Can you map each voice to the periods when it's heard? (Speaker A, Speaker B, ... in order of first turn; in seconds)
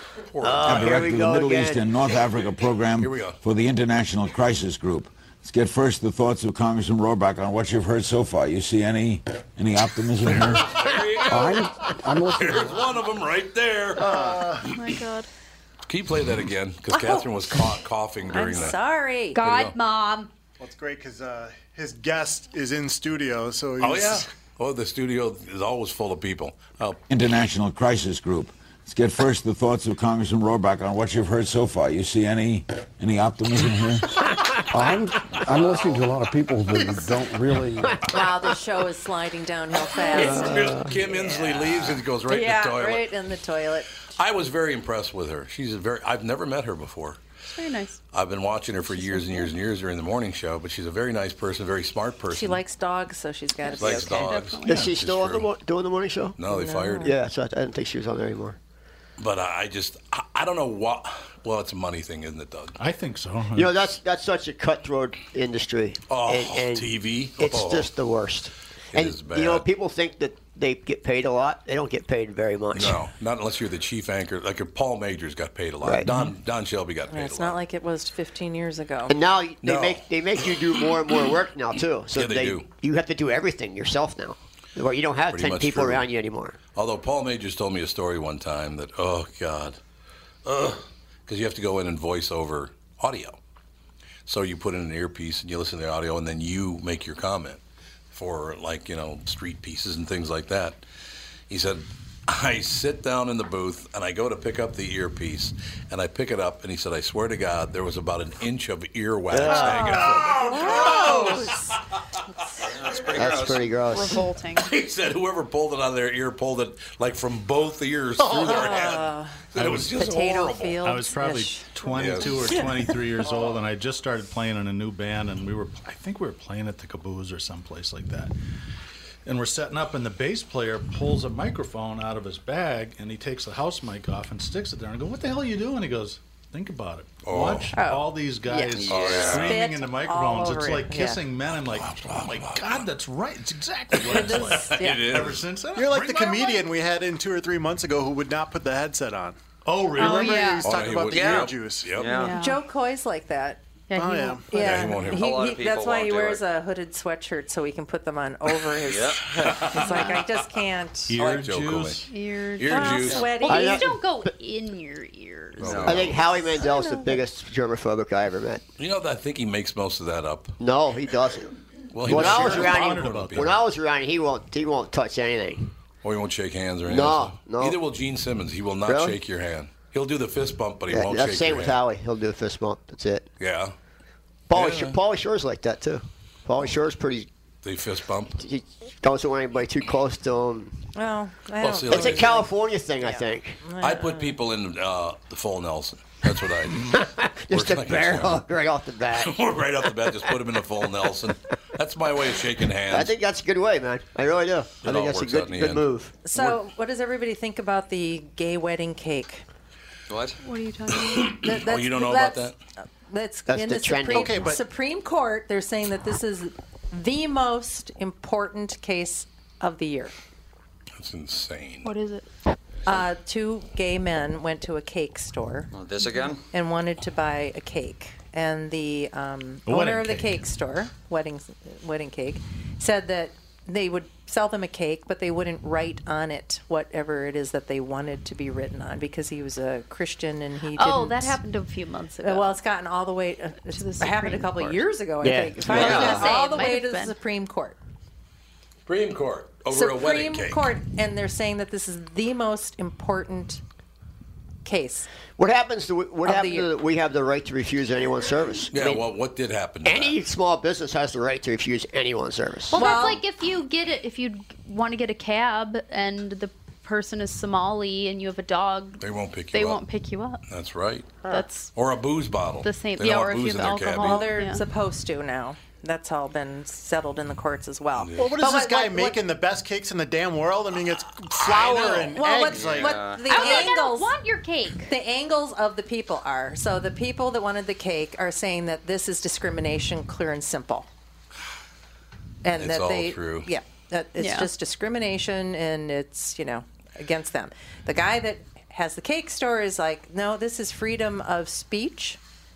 Speaker A: 0.3-1.1, 3.0-3.4, 10.3-11.7, 12.3-14.3, 15.9-18.8, 19.4-19.8, 23.8-27.0, 40.1-43.1, 44.1-47.2, 48.1-52.6, 53.8-55.5, 56.4-57.1, 59.2-62.8, 66.1-67.9, 68.9-69.7, 72.7-77.6, 79.6-80.9, 82.1-82.7, 85.3-86.1, 86.8-89.8, 90.5-93.4, 94.3-97.6, 98.1-100.8, 101.5-111.8, 113.0-113.5, 114.5-120.8, 122.0-122.4, 137.2-137.8, 138.9-139.6, 141.7-142.8, 143.9-145.4, 150.6-152.2, 154.5-155.3, 159.3-160.2, 161.2-162.1, 162.6-163.3, 165.6-166.2, 168.8-170.6, 171.9-173.6, 176.0-181.8, 183.4-183.7, 184.5-185.0, 187.6-188.4, 191.6-192.4, 193.8-198.4, 199.1-203.1, 204.8-205.9, 211.0-212.6, 221.0-221.9, 248.9-250.7, 258.7-260.2, 269.0-269.8, 270.5-274.3, 278.0-278.3, 292.6-293.5
Speaker B: 0.4-1.9, 40.1-40.9, 54.6-56.4, 57.0-58.6, 63.5-73.0, 75.8-76.1, 79.1-86.6, 109.3-110.2, 113.1-114.3, 163.5-164.3, 165.8-168.6, 170.6-171.5, 172.1-175.7, 176.9-177.8, 178.9-179.2, 180.9-183.3, 184.5-187.3, 188.4-190.8, 191.9-193.6, 196.8-201.1, 202.9-206.5, 213.5-214.6, 245.2-246.3, 255.4-259.0, 259.9-263.1
Speaker C: 0.6-10.9, 27.1-34.4
Speaker D: 11.3-12.8, 34.7-38.0
Speaker E: 14.0-14.6, 20.6-24.3, 145.8-149.4, 150.0-151.9, 153.9-154.5, 214.1-214.6, 278.2-283.1
Speaker F: 14.1-15.3, 19.3-20.3, 47.5-48.0, 53.6-54.9, 113.8-114.7, 138.4-138.9, 149.9-150.8, 152.1-152.6, 153.9-154.4, 159.9-160.2, 162.1-166.3, 210.4-211.3, 221.8-222.3, 240.8-242.6, 243.7-244.9, 245.7-247.2, 262.7-270.4, 271.2-271.7, 272.6-274.6, 283.2-284.9, 294.2-294.5
Speaker G: 16.9-17.7, 18.3-19.4, 38.1-43.9, 52.3-54.3, 56.5-57.1, 77.1-79.2, 109.5-111.7, 118.4-119.4, 120.0-122.8, 139.3-141.2, 144.1-145.1, 152.3-153.6, 154.5-161.2, 162.7-163.8, 166.6-167.2, 190.9-192.5, 193.0-194.4, 206.2-209.4, 211.4-220.1, 222.9-225.7, 226.5-241.4, 242.2-247.8, 249.7-253.6, 254.7-255.1, 256.2-256.7, 262.8-263.2, 274.0-279.2, 281.6-284.1, 284.9-290.9, 292.4-302.2
Speaker H: 62.8-63.7, 76.0-76.3, 119.6-120.0, 120.8-128.3, 129.2-146.6, 149.7-150.6, 161.1-162.1, 172.0-173.6, 229.7-230.4
Speaker I: 112.7-113.7, 138.7-139.5, 151.1-152.3, 155.1-156.4, 158.9-159.2, 165.6-166.1, 210.1-210.4, 225.7-226.4, 245.7-246.2, 282.5-283.4